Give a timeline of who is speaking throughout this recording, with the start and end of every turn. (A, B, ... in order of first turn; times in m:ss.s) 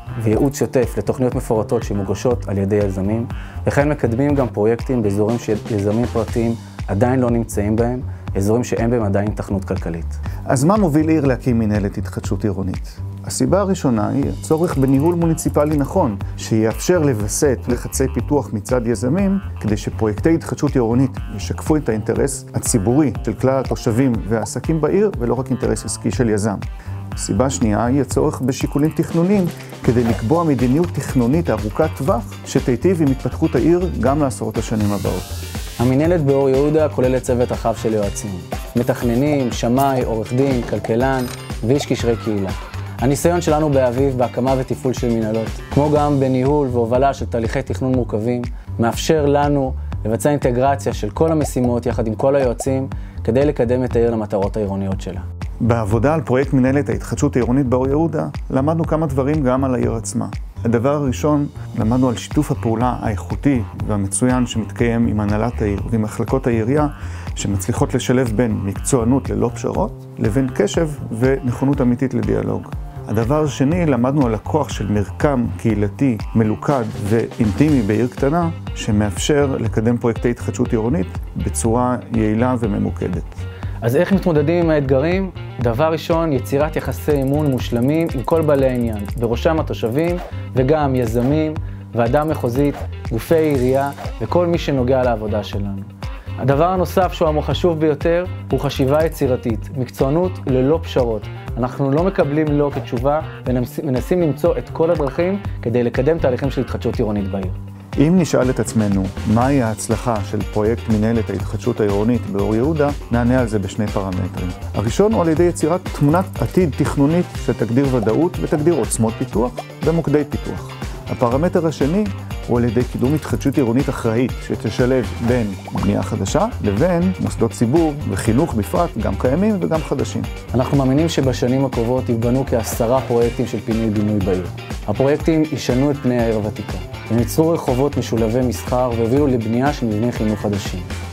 0:00.2-0:10.2 A
0:10.5-0:35.3 B
0:35.8-0:55.2 A
0:55.6-1:23.4 B
1:23.8-1:35.9 A
1:36.4-1:47.6 A
1:48.0-2:10.3 B
2:10.5-2:20.9 A